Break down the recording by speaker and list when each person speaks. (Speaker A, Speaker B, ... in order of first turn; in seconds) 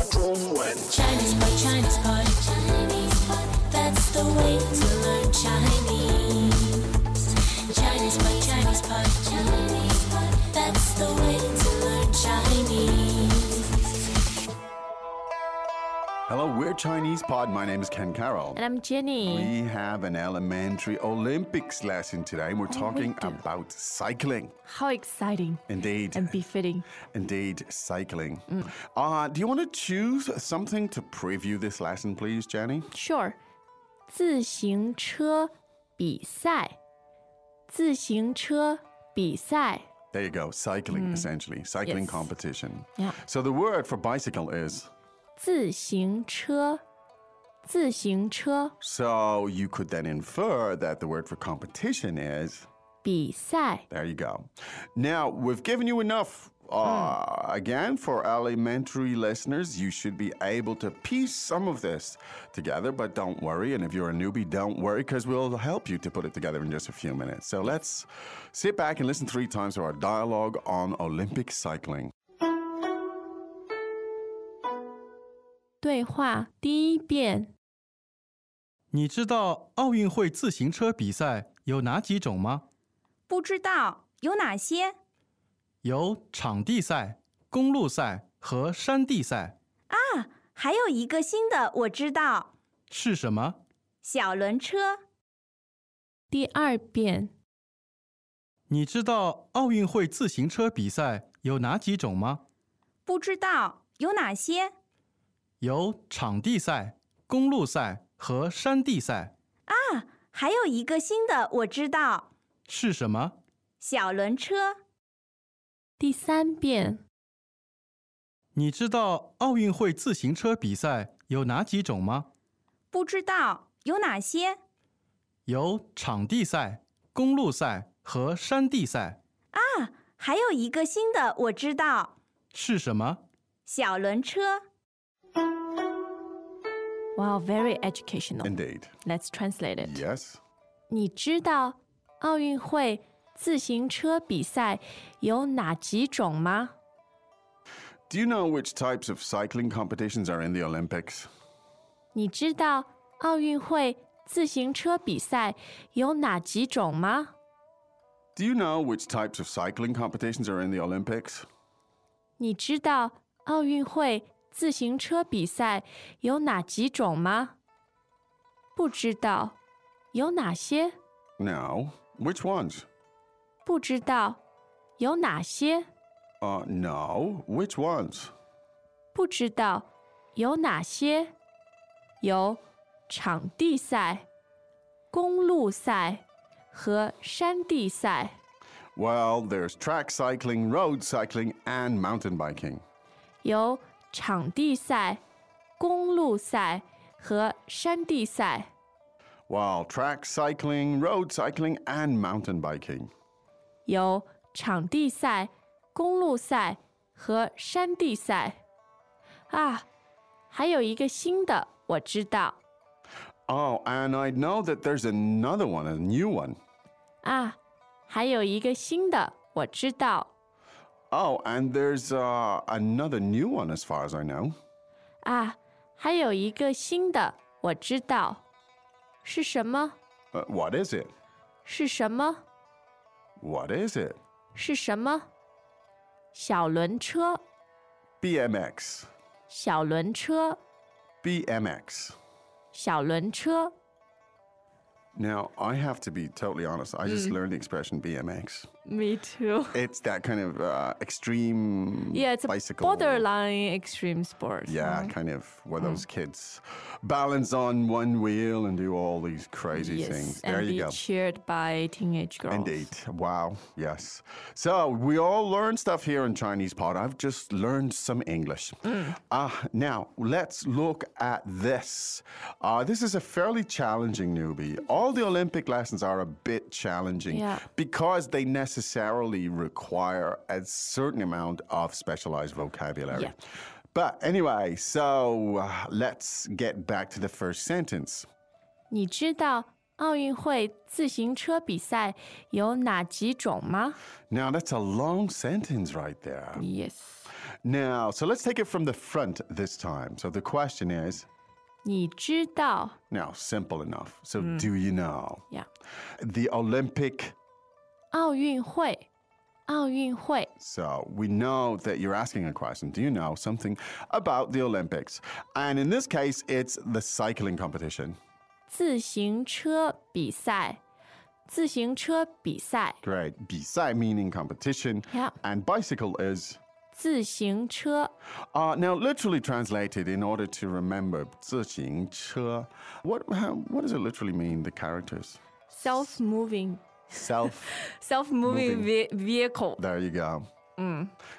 Speaker A: 0.8-6.9, 7.7-13.6
Speaker B: 16.3-18.6, 19.2-24.5, 25.7-26.4, 27.1-32.9, 40.1-44.9, 48.8-52.7, 53.9-72.1, 138.4-138.9, 139.8-140.4, 148.1-151.3, 158.3-161.5, 171.4-172.8, 176.4-178.3, 188.9-192.8, 199.5-203.1, 213.5-216.6, 221.1-224.6, 230.3-231.1, 233.4-234.2, 238.2-239.1, 241.2-242.2, 245.1-248.7, 249.7-253.3, 254.7-261.0, 262.5-283.4, 283.9-288.3, 294.3-296.6, 297.6-301.3, 303.1-305.4, 306.2-307.3, 310.6-318.2, 323.0-326.6, 328.5-335.4, 337.1-337.7, 338.4-338.9, 339.8-340.5
Speaker C: 18.5-19.5, 22.7-23.4, 24.6-25.6, 26.1-26.9, 32.9-33.4, 34.1-36.8, 37.7-39.8, 40.9-41.3, 41.8-42.3, 45.4-46.8, 47.6-48.7, 53.0-53.8, 56.8-57.1, 75.8-77.5, 96.3-97.3, 116.0-117.0, 137.2-140.0, 140.9-146.7, 152.1-157.3, 162.4-167.5, 168.8-169.6, 170.1-170.9, 173.6-174.4, 175.0-175.9, 179.1-181.3, 182.2-184.2, 185.1-188.3, 193.4-195.2, 195.8-198.7, 203.8-208.6, 209.5-209.9, 210.5-212.6, 217.2-217.6, 218.1-220.3, 225.2-228.4, 229.2-229.9, 231.6-232.4, 234.5-235.3, 236.3-237.4, 239.5-240.6, 242.7-243.7, 247.1-247.4, 248.8-249.8, 252.1-255.1, 255.8-256.0, 259.7-262.9, 277.3-277.6, 288.9-294.0, 296.6-297.3, 301.8-302.9, 304.4-304.7, 308.1-309.1, 309.7-310.5, 318.7-320.8, 321.5-323.0, 326.9-328.1, 335.7-336.9, 337.4-339.8, 340.8-341.1
Speaker D: 78.9-82.6, 85.8-89.5, 92.9-93.5, 98.7-102.4, 105.6-109.3, 112.7-113.3, 118.5-122.3, 125.5-129.2, 132.5-133.2
Speaker E: 83.3-84.9, 89.9-92.5, 94.0-95.0, 103.1-104.7, 109.7-112.2, 113.8-114.8, 122.9-124.6, 129.5-132.1, 133.7-134.6